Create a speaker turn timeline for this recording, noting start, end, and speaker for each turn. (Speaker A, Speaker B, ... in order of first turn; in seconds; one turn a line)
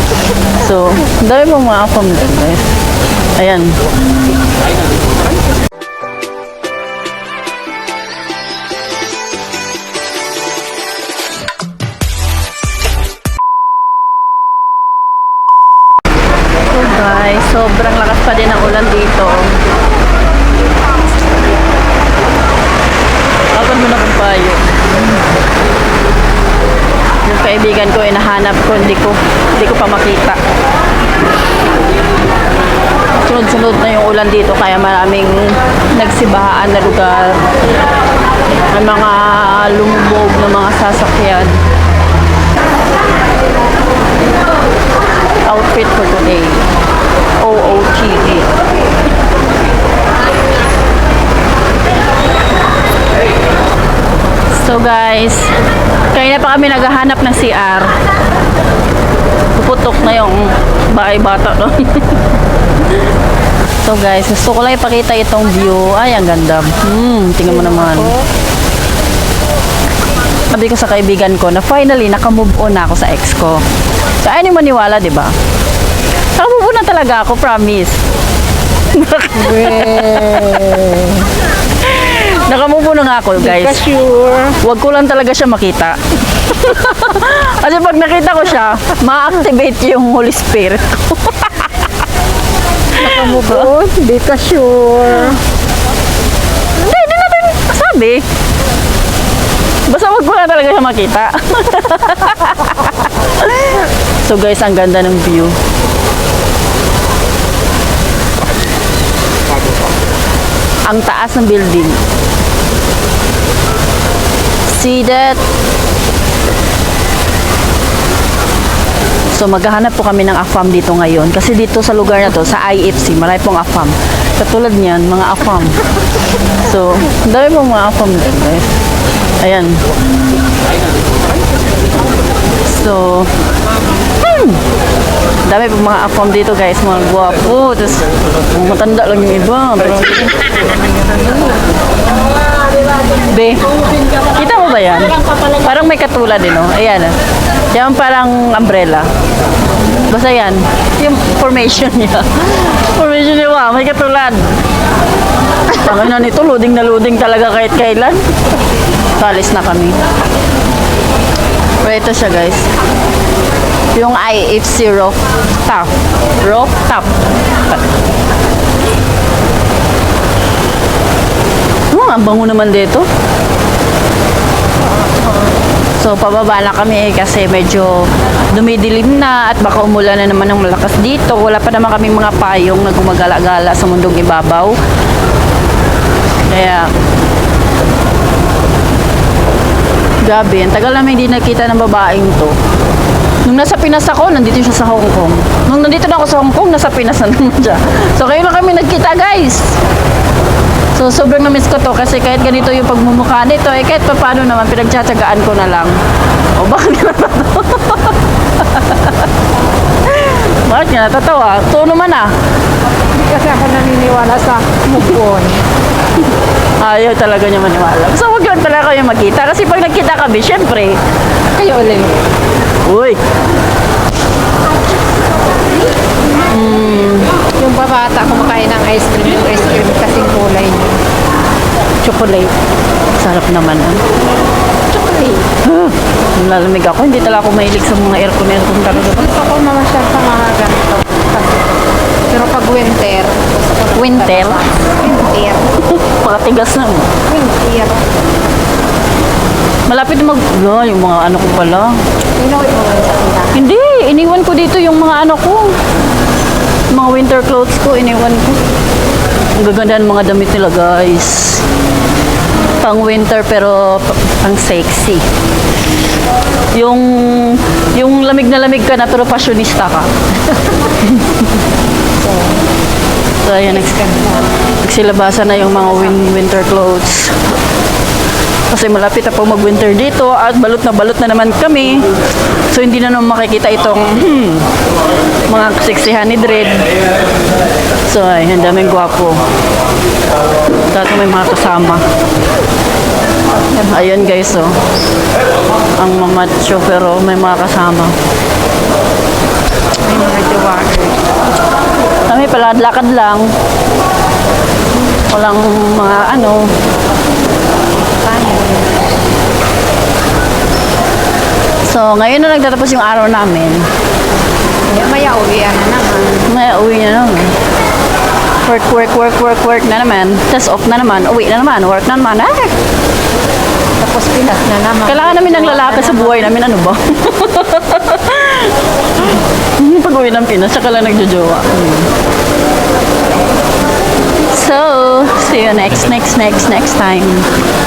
Speaker A: 0.6-2.6
Speaker A: 3.4-3.8
Speaker A: 16.7-19.6
Speaker A: 23.5-24.7
Speaker A: 27.2-30.4
Speaker A: 33.2-37.5
Speaker A: 38.7-41.6
Speaker A: 45.5-46.7
Speaker A: 47.4-48.5
Speaker A: 54.5-55.6
Speaker A: 56.1-58.0
Speaker A: 59.5-62.2
Speaker A: 63.8-68.1
Speaker B: 67.6-68.2
Speaker A: 70.5-73.7
Speaker A: 74.2-75.3
Speaker A: 76.3-78.0
Speaker A: 78.9-81.0
Speaker B: 79.5-81.3
Speaker A: 81.8-83.8
Speaker B: 83.5-84.6
Speaker A: 84.6-91.9
Speaker A: 92.9-93.7
Speaker B: 93.0-95.4
Speaker A: 96.8-98.2
Speaker A: 99.9-105.6
Speaker A: 110.9-112.0
Speaker A: 114.7-115.4
Speaker A: 119.3-125.8
Speaker A: 126.6-128.7
Speaker A: 129.4-129.8
Speaker A: 132.6-133.3
Speaker A: 134.2-134.6
Speaker A: 135.4-140.5
Speaker A: 143.2-147.2
Speaker A: 147.7-149.1
Speaker A: 150.1-154.6
Speaker A: 155.7-158.2
Speaker A: 159.1-160.0
Speaker A: 161.8-162.7
Speaker A: 163.9-167.8
Speaker A: 171.9-173.1
Speaker A: 176.0-184.8
Speaker A: 186.4-186.9
Speaker A: 190.2-192.6
Speaker A: 193.4-199.8
Speaker A: 200.9-206.0
Speaker A: 206.6-209.2
Speaker A: 210.1-212.3
Speaker B: 213.1-215.7
Speaker A: 216.8-221.0
Speaker B: 221.6-222.2
Speaker A: 222.8-223.2
Speaker A: 226.5-227.3
Speaker B: 227.5-231.0
Speaker B: 232.0-232.5
Speaker A: 233.2-234.0
Speaker B: 234.9-235.4
Speaker A: 235.5-239.3
Speaker B: 239.1-245.7
Speaker A: 243.9-244.6
Speaker A: 245.7-247.2
Speaker B: 247.2-248.1
Speaker A: 249.9-252.0
Speaker B: 252.3-253.6
Speaker A: 253.5-255.8
Speaker A: 256.9-258.6
Speaker A: 259.6-261.6
Speaker A: 262.8-265.2
Speaker A: 266.7-270.1
Speaker A: 271.0-271.5
Speaker B: 272.2-272.6
Speaker A: 273.4-274.0
Speaker B: 273.8-274.5
Speaker A: 274.8-277.4
Speaker A: 278.7-282.1
Speaker A: 282.7-284.7
Speaker A: 285.4-286.9
Speaker A: 288.1-289.4
Speaker A: 290.9-292.0
Speaker A: 293.7-294.8
Speaker A: 296.0-298.1
Speaker B: 300.0-301.2
Speaker A: 302.2-303.5
Speaker A: 305.3-306.7
Speaker B: 307.9-309.2
Speaker A: 311.9-313.9
Speaker B: 314.8-316.5
Speaker A: 316.4-317.6
Speaker A: 318.6-322.7
Speaker B: 324.0-326.5
Speaker A: 325.1-332.1
Speaker A: 334.5-337.5